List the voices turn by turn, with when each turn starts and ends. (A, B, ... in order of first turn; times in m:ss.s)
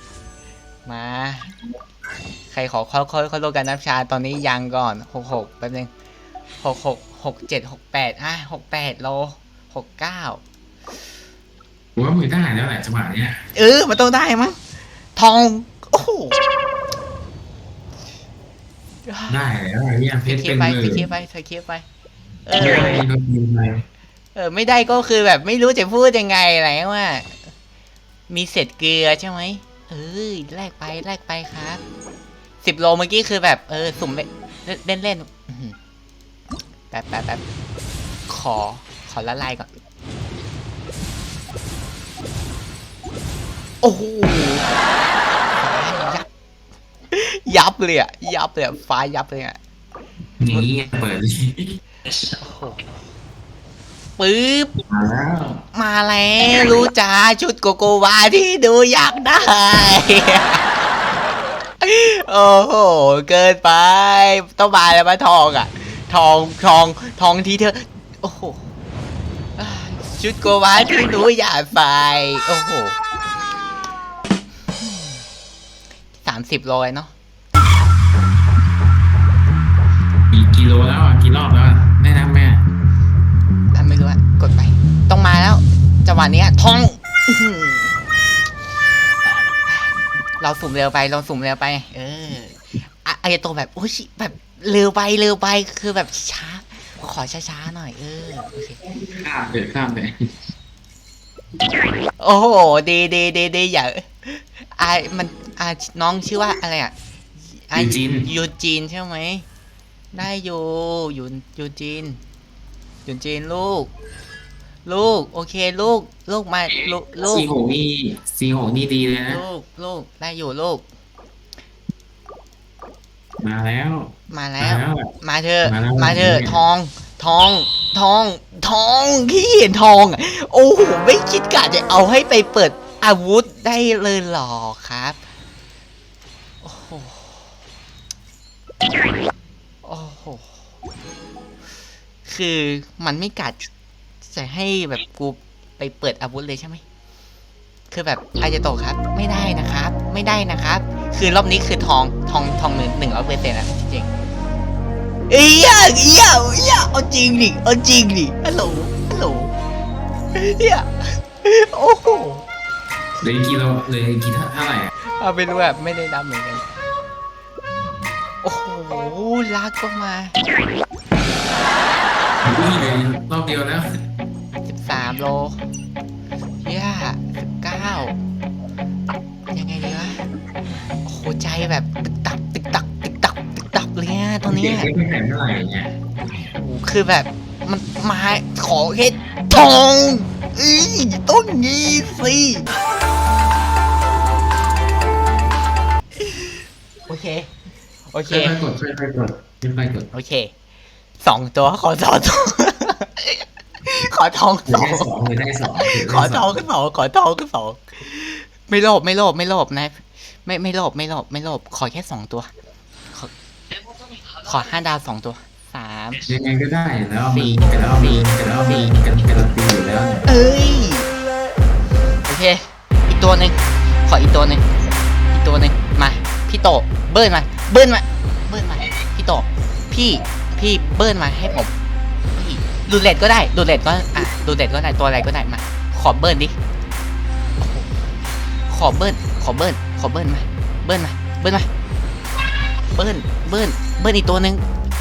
0:00.9-0:01.5 A
0:02.5-0:05.9 A
0:06.6-0:10.4 A
0:12.0-0:13.4 B
0:13.6-0:14.6 A
0:15.2-0:16.4 A
0:19.1-0:19.5 A
0:19.3-0:21.1 B
0:20.2-0:21.8 A
0:22.5-0:23.1 A
0:22.6-0:23.8 B
0:24.4-0:27.4 A
0:28.3-0:31.8 A
0:32.6-0:35.8 A
0:36.9-0:37.4 A
0:38.3-0:39.7 A
0:43.8-0:44.7 A
0:45.6-0:46.3 A
0:47.1-0:49.6 A
0:50.4-0:52.2 B
0:52.4-0:52.8 A
0:54.2-0:54.8 A
0:54.9-0:55.6 B
0:55.7-1:00.8 A
1:01.8-1:08.6 A
1:09.6-1:13.0 A
1:14.8-1:15.2 A
1:16.2-1:17.1 A
1:20.3-1:22.6 B
1:23.7-1:28.0 A
1:29.7-1:38.8 A
1:38.9-1:40.2 B
1:42.2-1:47.0 A
1:47.5-1:49.5 A
1:47.8-1:48.3 B
1:50.1-1:52.2 A
1:53.1-1:53.9 A
1:54.9-1:57.5 A
1:56.8-1:59.4 B
1:59.3-2:00.8 A
2:03.4-2:05.1 B
2:04.3-2:15.2 A
2:05.6-2:06.6 B
2:16.6-2:17.4 A
2:19.8-2:20.6 A
2:22.3-2:23.7 A
2:24.3-2:26.8 A
2:27.9-2:34.1 A
2:35.3-2:39.5 A
2:40.3-2:42.4 A
2:43.2-2:44.9 B
2:45.2-2:46.7 A
2:48.4-2:50.4 A
2:52.4-2:53.9 B
2:54.6-2:55.6 A
2:56.6-2:58.2 A
2:59.5-3:00.3 A
3:01.0-3:04.9 A
3:04.5-3:05.9 B
3:06.5-3:12.6 A
3:17.1-3:17.5 A
3:18.1-3:18.6 A
3:18.3-3:20.1 B
3:20.1-3:20.5 A
3:21.2-3:25.1 A
3:24.7-3:26.6 B
3:25.8-3:32.5 A
3:34.4-3:36.3 A
3:36.2-3:40.3 B
3:37.3-3:39.0 A
3:40.3-3:41.1 A
3:42.3-3:44.6 A
3:45.3-3:51.7 A
3:52.3-3:56.6 A
3:57.6-3:57.9 A
3:58.7-4:01.7 A
4:02.9-4:04.6 A